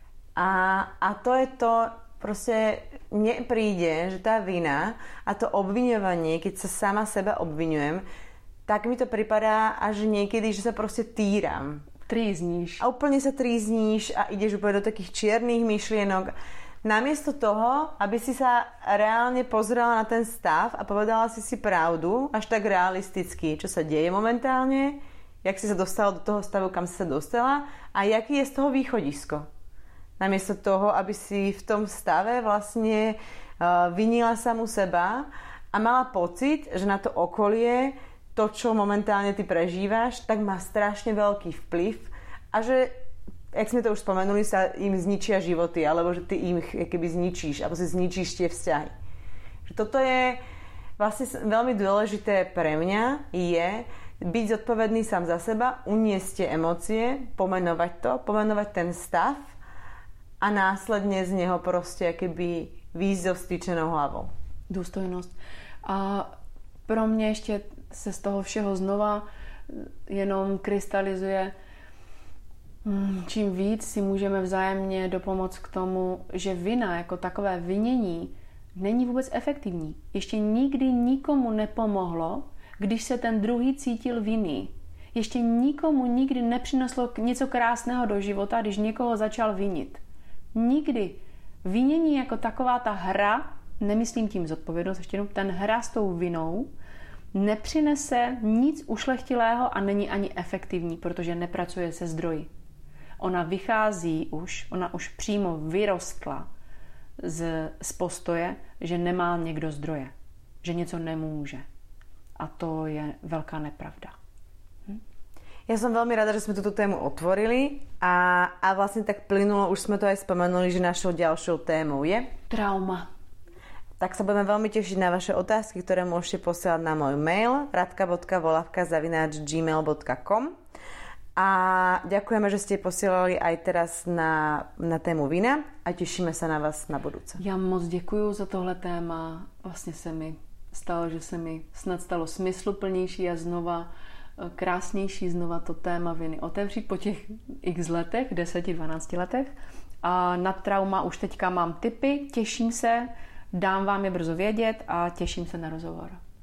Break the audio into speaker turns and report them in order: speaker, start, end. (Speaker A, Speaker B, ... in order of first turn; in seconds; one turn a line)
Speaker A: 0.4-8.0
Speaker A: 8.7-11.8
Speaker B: 12.1-12.8
Speaker A: 12.8-16.3
Speaker A: 16.8-29.5
Speaker A: 30.2-42.9
Speaker A: 43.5-48.9
Speaker A: 49.7-50.4
Speaker A: 51.0-59.5
Speaker A: 60.4-64.3
Speaker B: 64.7-65.3
Speaker B: 65.8-66.3
Speaker B: 66.9-71.5
Speaker B: 72.8-90.0
Speaker B: 90.5-96.7
Speaker B: 97.3-102.5
Speaker B: 103.2-106.5
Speaker B: 107.2-111.6
Speaker B: 112.4-114.1
Speaker A: 115.7-122.3
Speaker B: 122.5-123.1
Speaker A: 124.0-130.5
Speaker A: 131.4-137.4
Speaker B: 137.4-156.2